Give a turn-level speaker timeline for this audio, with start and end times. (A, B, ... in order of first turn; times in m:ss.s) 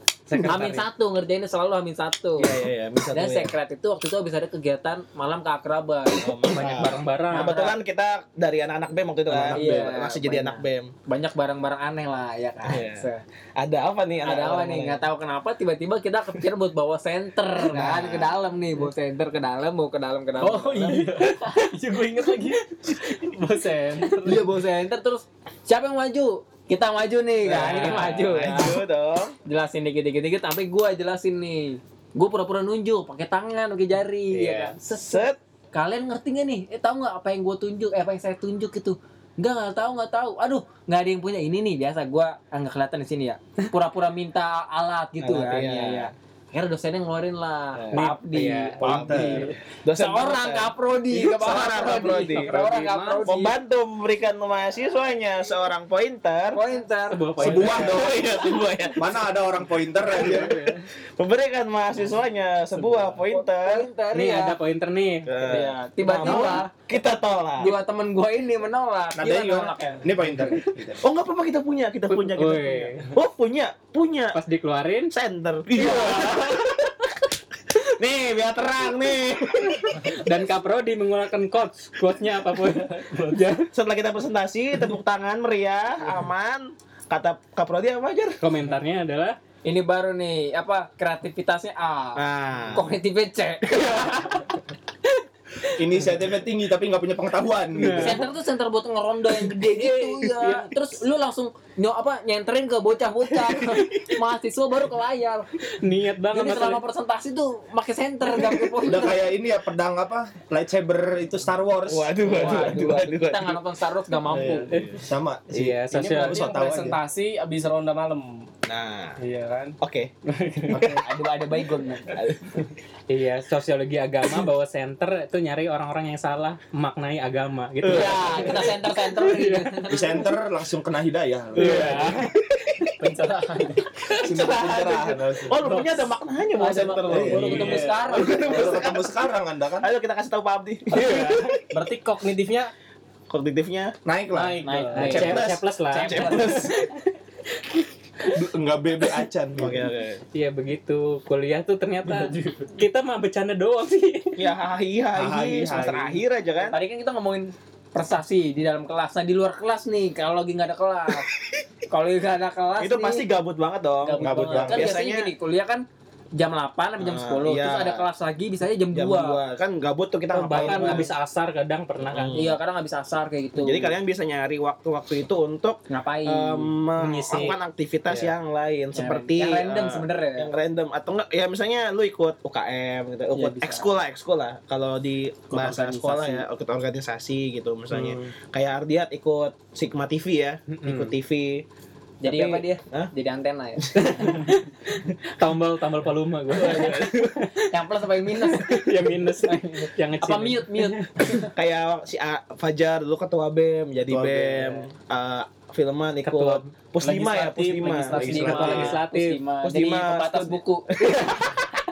0:00.3-0:00.8 A
0:00.4-0:02.5 B
0:02.4-0:03.6 C
0:03.1-0:06.3 B
0:06.1-0:10.9 C
0:06.5-0:07.7 A
0:07.4-0:07.7 B
0:09.3-0:09.9 D
0:09.5-0:13.2 B
0:12.6-0:15.1 C
0:14.2-0:21.6 B
0:17.7-0:18.4 C
0:20.4-0:24.5 E
0:24.1-0:28.8 B
0:27.4-0:29.3 C
0:27.6-0:28.6 D
0:29.4-0:53.6 B
0:34.3-0:35.4 C
0:45.2-0:46.1 C
0:47.7-0:52.5 C
0:47.9-0:48.9 A
0:48.8-0:49.5 D
0:52.1-0:53.3 A
0:53.2-0:56.6 C
0:56.5-0:58.0 B
0:57.1-0:58.0 A
0:57.4-0:58.2 D
0:57.4-0:59.3 C
0:59.0-1:00.6 D
1:00.1-1:03.9 C
1:00.1-1:00.7 B
1:03.3-1:04.6 B
1:04.1-1:05.3 A
1:05.3-1:07.7 C
1:05.4-1:06.7 B
1:06.2-1:06.5 D
1:07.6-1:10.7 B
1:09.2-1:11.0 D
1:11.0-1:14.4 C
1:12.1-1:13.1 A
1:14.3-1:15.1 A
1:15.1-1:17.1 C
1:15.7-1:16.6 D
1:17.7-1:20.2 C
1:20.1-1:23.7 A
1:22.7-1:23.4 E
1:23.7-1:28.4 C
1:28.4-1:29.4 A
1:29.6-1:34.4 B
1:32.1-1:32.9 C
1:35.7-1:38.2 D
1:37.7-1:38.2 A
1:38.0-1:45.5 B
1:39.6-1:40.7 A
1:43.4-1:44.0 C
1:45.7-1:46.8 A
1:46.3-1:49.2 B
1:48.8-1:52.8 D
1:51.9-1:53.6 C
1:52.3-1:54.7 B
1:54.3-1:57.0 D
1:54.7-1:56.5 A
1:55.9-1:58.3 E
1:58.7-1:59.2 C
1:59.2-2:01.0 E
1:59.8-2:00.1 C
2:00.7-2:01.0 D
2:01.0-2:02.1 B
2:02.1-2:02.6 C
2:03.1-2:09.8 A
2:07.8-2:08.7 C
2:07.9-2:10.3 B
2:09.9-2:12.2 D
2:11.6-2:12.3 A
2:11.6-2:12.1 E
2:11.7-2:11.9 B
2:11.7-2:12.9 C
2:13.0-2:13.9 E
2:13.0-2:13.7 B
2:14.1-2:14.6 A
2:14.2-2:15.6 D
2:14.3-2:19.2 C
2:16.6-2:18.9 B
2:16.8-2:19.9 D
2:17.3-2:18.0 E
2:19.8-2:21.5 C
2:20.9-2:21.5 A
2:21.0-2:22.7 E
2:23.3-2:24.0 C
2:24.0-2:25.6 D
2:24.3-2:25.2 E
2:24.6-2:26.8 B
2:25.0-2:27.0 A
2:25.1-2:25.4 C
2:26.0-2:26.7 C
2:28.3-2:29.8 D
2:29.6-2:30.2 C
2:30.3-2:34.4 A
2:32.0-2:32.7 E
2:34.4-2:36.8 C
2:35.1-2:36.2 D
2:36.6-2:41.3 B
2:41.9-2:43.3 B
2:42.8-2:45.3 C
2:44.0-2:45.8 B
2:44.2-2:44.9 D
2:46.4-2:49.4 B
2:47.0-2:48.1 C
2:48.9-2:51.1 C
2:50.3-2:52.4 A
2:50.5-2:51.1 B
2:52.0-2:52.6 C
2:52.3-2:54.0 B
2:53.6-3:11.7 C
2:55.9-2:56.7 B
2:57.0-2:57.6 A
2:58.9-3:00.5 B
3:03.4-3:03.7 E
3:03.4-3:03.7 B
3:05.5-3:06.4 B
3:07.9-3:08.3 D
3:10.7-3:11.1 A
3:12.2-3:14.3 B
3:12.2-3:13.1 C
3:14.0-3:17.7 A
3:16.5-3:17.4 C
3:16.6-3:17.0 B
3:17.7-3:18.9 B
3:18.4-3:21.4 A
3:19.5-3:21.5 B
3:21.5-3:28.7 C
3:24.1-3:24.8 D
3:26.2-3:26.7 A
3:27.0-3:28.7 E
3:28.1-3:31.3 B
3:28.2-3:29.0 D
3:28.4-3:29.4 A
3:29.6-3:31.5 C